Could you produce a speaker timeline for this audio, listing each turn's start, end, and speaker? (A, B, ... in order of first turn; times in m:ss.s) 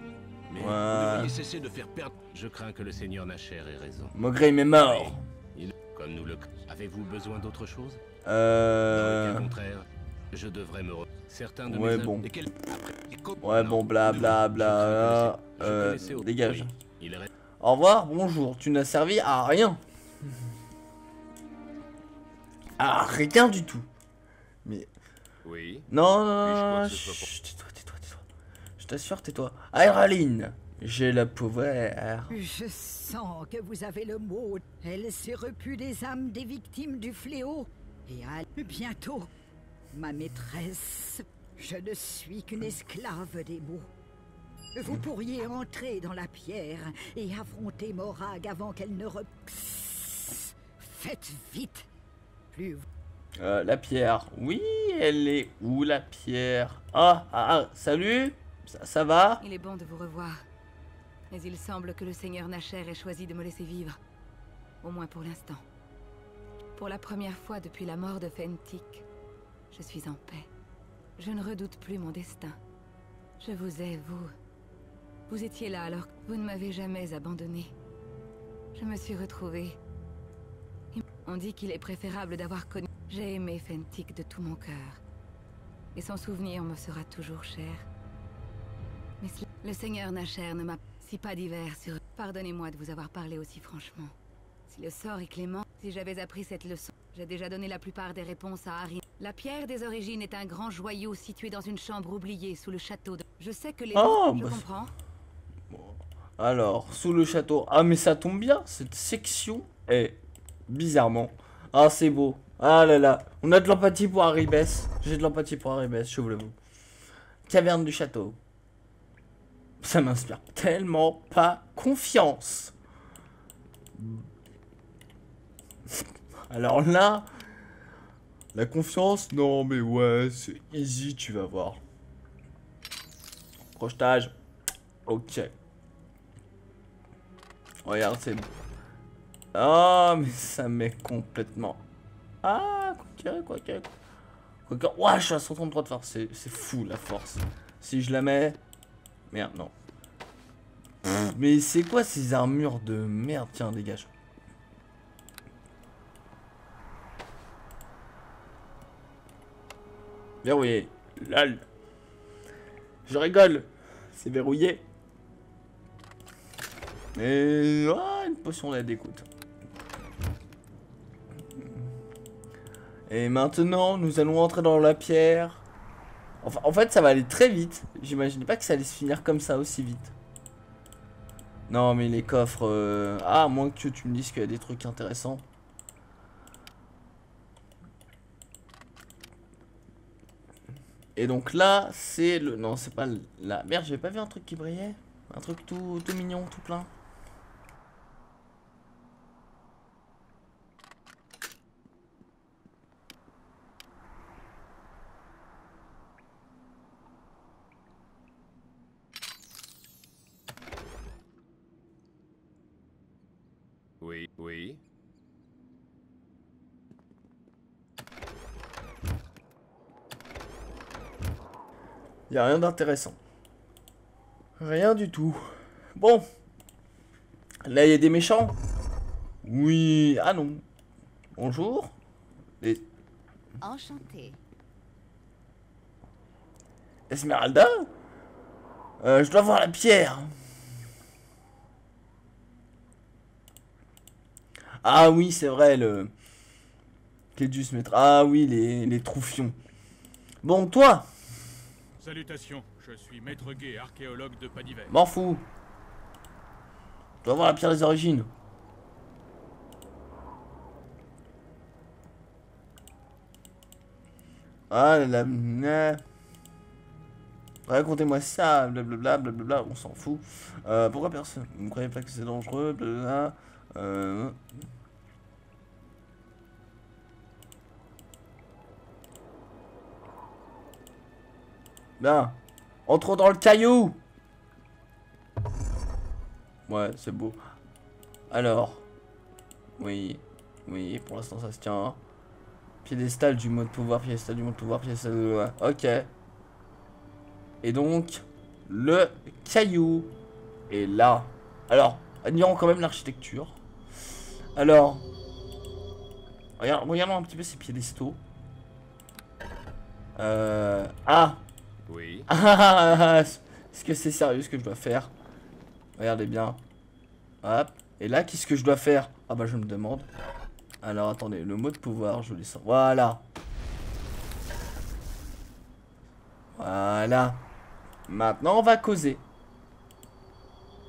0:00.5-0:01.3 A
0:00.6-0:01.3 B
0:00.9-0:02.2 C
0:02.3-0:04.1 A
0:04.1-0:05.2 B
0:04.8-0:08.0 A
0:08.2-0:09.5 B
0:08.9-0:12.2 A
0:11.7-0:12.3 B
0:12.2-0:14.2 C
0:13.4-0:16.7 B
0:14.2-0:17.3 A
0:17.6-0:19.8 B
0:22.8-0:23.9 B
0:24.6-0:24.9 B
0:25.4-0:25.9 A
0:25.9-0:28.2 B
0:26.4-0:27.3 A
0:28.8-0:32.4 B
0:32.3-0:39.3 D
0:39.9-0:43.9 D
0:44.8-0:51.9 D
0:52.5-0:52.8 D
0:53.4-0:59.4 B
0:59.4-1:00.4 E
1:01.3-1:04.0 E
1:04.8-1:05.6 E
1:06.8-1:09.0 E
1:09.7-1:10.5 E
1:11.2-1:12.6 E
1:13.4-1:14.3 E
1:15.3-1:17.7 E
1:18.8-1:19.8 E
1:21.0-1:25.0 E
1:26.0-1:27.9 E
1:29.2-1:34.1 E
1:34.7-1:44.9 E
1:43.9-1:44.6 B
1:45.7-1:56.6 B
1:57.5-1:58.4 B
1:59.8-2:02.8 B
2:04.0-2:04.3 B
2:06.5-2:07.3 B
2:08.5-2:11.8 B
2:13.8-2:14.3 B
2:15.1-2:15.5 B
2:17.8-2:18.5 B
2:19.5-2:21.8 B
2:22.4-2:23.9 B
2:24.7-2:28.6 B
2:29.3-2:29.7 B
2:31.0-2:34.1 B
2:40.4-2:41.6 B
2:43.1-2:44.8 B
2:47.2-2:49.3 B
2:51.6-2:51.8 B
2:53.1-2:55.6 B
2:56.4-3:00.1 B
3:01.7-3:05.4 B
3:11.2-3:16.9 B
3:34.0-3:34.8 A
3:42.3-3:43.2 B
3:44.6-3:46.2 B
3:47.6-3:48.6 B
3:49.4-3:50.6 B
3:51.4-3:52.0 B
3:53.7-3:54.3 D
3:57.1-3:57.9 B
3:59.0-4:00.3 B
4:04.8-4:06.1 B
4:07.4-4:09.6 B
4:10.4-4:11.1 B
4:12.0-4:15.0 F
4:14.9-4:15.5 B
4:17.2-4:18.3 B
4:24.7-4:26.0 B
4:27.7-4:34.4 B
4:42.0-4:44.0 B
4:46.7-4:47.4 B
4:48.3-4:48.9 B
4:49.8-4:52.0 B
4:52.8-4:56.1 B
4:57.6-5:00.1 B
5:00.7-5:03.6 B
5:04.6-5:05.1 B
5:06.6-5:08.2 B
5:10.2-5:11.4 B
5:11.9-5:12.3 A
5:12.3-5:15.1 B
5:16.0-5:16.6 B
5:17.4-5:20.1 B
5:20.8-5:23.2 B
5:26.6-5:27.4 B
5:28.1-5:29.2 B